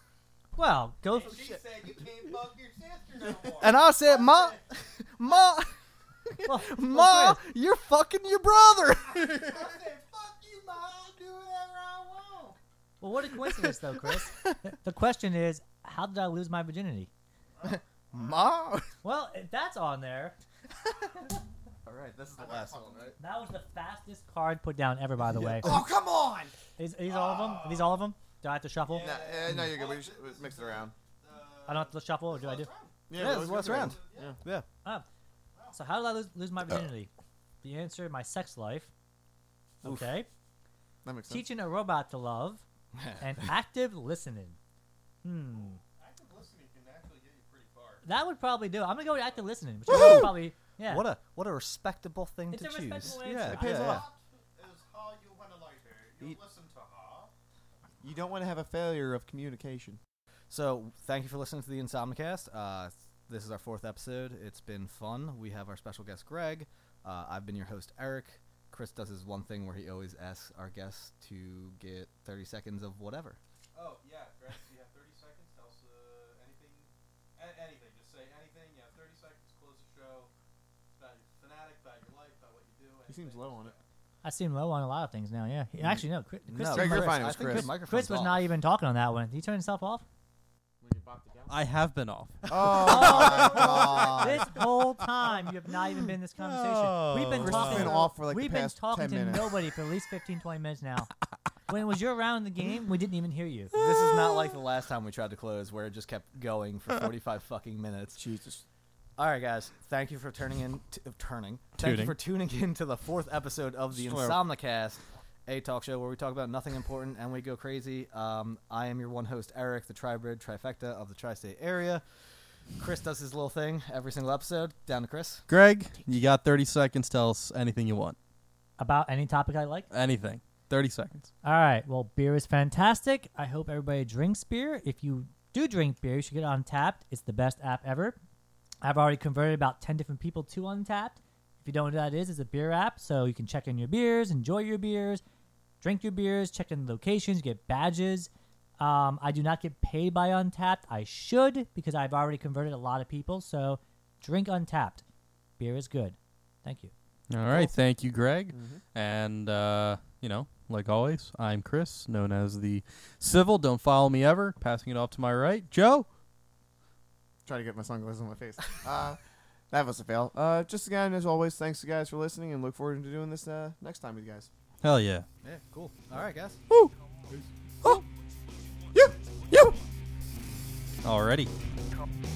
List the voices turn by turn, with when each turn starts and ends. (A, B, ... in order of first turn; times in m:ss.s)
0:00.5-0:01.6 A
0:01.1-0:04.8 B
0:03.6-0:05.7 C
0:06.3-0:09.7 C
0:06.4-0:07.4 A
0:08.9-0:12.6 B
0:13.0-0:17.1 A
0:13.4-0:14.6 C
0:17.6-0:18.5 B
0:17.6-0:18.9 C
0:19.0-0:20.4 A
0:21.8-0:23.1 D
0:22.3-0:23.1 C
0:22.4-0:23.1 B
0:23.2-0:25.7 A
0:25.4-0:26.5 D
0:25.6-0:25.9 C
0:26.8-0:29.2 A
0:27.0-0:28.1 B
0:28.8-0:34.4 B
0:29.0-0:30.9 D
0:31.6-0:32.7 A
0:33.1-0:34.3 D
0:33.1-0:34.6 C
0:35.7-0:37.1 A
0:37.6-0:38.9 A
0:39.8-0:40.1 C
0:39.8-0:40.3 A
0:41.0-0:41.4 D
0:41.3-0:42.6 A
0:42.9-0:43.3 C
0:43.2-0:44.6 A
0:45.2-0:45.8 A
0:45.5-0:48.1 B
0:48.0-0:51.1 A
0:49.1-0:49.4 B
0:49.9-0:54.0 C
0:52.5-0:54.0 A
0:53.5-0:54.0 D
0:53.7-0:57.3 B
0:58.0-1:00.0 D
1:00.5-1:13.4 C
1:13.7-1:20.3 B
1:20.9-1:23.8 B
1:23.1-1:23.7 D
1:24.2-1:30.0 A
1:26.5-1:28.4 C
1:26.6-1:27.7 D
1:30.8-1:31.5 D
1:31.5-1:34.8 E
1:32.5-1:34.4 D
1:32.7-1:41.1 A
1:36.4-1:37.9 E
1:37.4-1:39.6 D
1:41.7-1:43.7 A
1:43.7-1:48.2 C
1:48.2-1:48.6 D
1:49.2-2:02.0 C
1:51.8-1:52.1 E
1:53.9-1:54.4 D
2:02.8-2:05.4 C
2:05.5-2:08.2 E
2:08.8-2:09.9 A
2:09.9-2:11.3 E
2:11.4-2:18.2 A
2:18.8-2:25.2 A
2:25.8-2:35.0 A
2:35.6-2:36.9 A
2:37.3-2:46.1 E
2:38.5-2:38.8 D
2:47.4-2:49.2 D
2:49.7-2:54.5 D
2:54.8-2:55.2 E
2:55.4-2:56.6 C
2:58.9-2:59.8 E
3:01.0-3:01.5 E